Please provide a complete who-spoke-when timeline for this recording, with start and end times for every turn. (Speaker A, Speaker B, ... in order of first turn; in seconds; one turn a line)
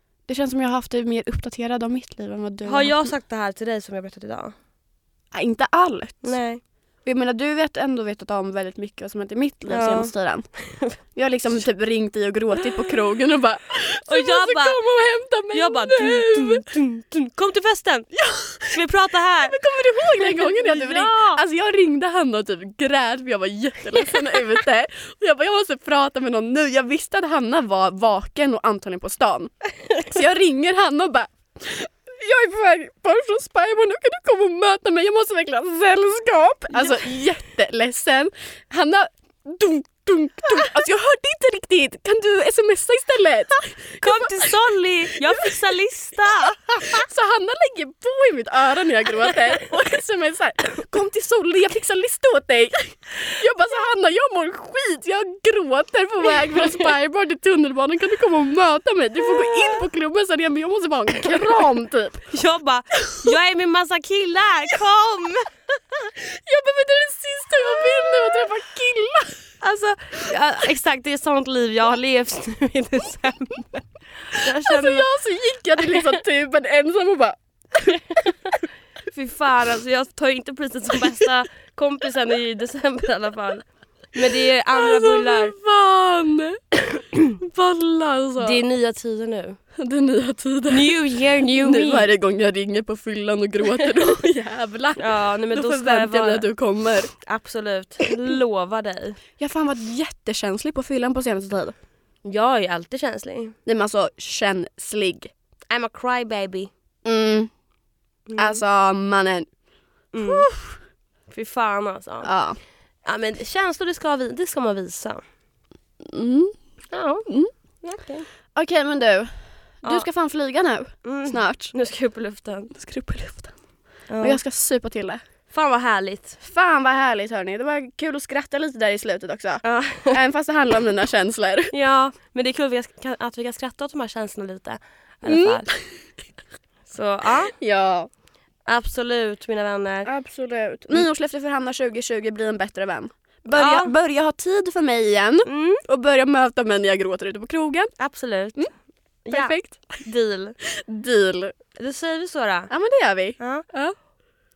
Speaker A: 0.3-3.1
Speaker B: 2.6-4.5
Speaker A: 5.3-6.4
Speaker B: 6.2-6.6
Speaker A: 7.0-10.5
Speaker B: 9.7-11.0
Speaker A: 11.1-16.7
Speaker B: 14.1-14.8
Speaker B: 15.5-18.1
Speaker A: 18.1-18.9
Speaker B: 18.6-21.4
Speaker A: 19.4-44.6
Speaker B: 44.0-47.0
Speaker A: 45.2-45.5
Speaker A: 46.8-62.2
Speaker B: 62.3-65.5
Speaker A: 63.0-63.3
Speaker A: 66.0-69.4
Speaker B: 69.6-75.1
Speaker A: 74.3-77.4
Speaker B: 77.8-85.5
Speaker A: 84.7-88.6
Speaker B: 88.4-89.6
Speaker A: 89.8-90.9
Speaker B: 90.7-92.1
Speaker A: 91.5-97.1
Speaker B: 95.0-96.5
Speaker B: 97.1-99.2
Speaker A: 99.4-101.7
Speaker B: 102.2-103.5
Speaker A: 103.7-105.3
Speaker B: 105.7-106.7
Speaker A: 107.0-107.5
Speaker B: 108.3-108.6
Speaker A: 108.4-109.5
Speaker B: 110.1-110.5
Speaker A: 110.2-110.8
Speaker B: 111.3-112.3
Speaker A: 112.2-112.6
Speaker B: 113.0-115.2
Speaker A: 116.0-116.5
Speaker B: 116.9-117.3
Speaker B: 117.8-118.3
Speaker A: 118.5-121.7
Speaker B: 121.0-122.7
Speaker A: 122.7-123.5
Speaker B: 124.1-124.4
Speaker A: 124.2-125.2
Speaker B: 125.5-126.4
Speaker A: 126.4-131.7
Speaker B: 129.6-130.2
Speaker B: 131.7-135.7
Speaker A: 135.2-135.9
Speaker B: 136.9-137.6
Speaker A: 137.6-138.1
Speaker B: 138.7-140.1
Speaker A: 140.1-147.9
Speaker B: 143.5-143.9
Speaker B: 145.4-145.8
Speaker B: 148.0-148.7
Speaker B: 149.2-150.6
Speaker A: 149.3-150.0
Speaker A: 150.6-151.6
Speaker B: 151.8-152.7
Speaker A: 152.7-153.9
Speaker B: 153.4-153.6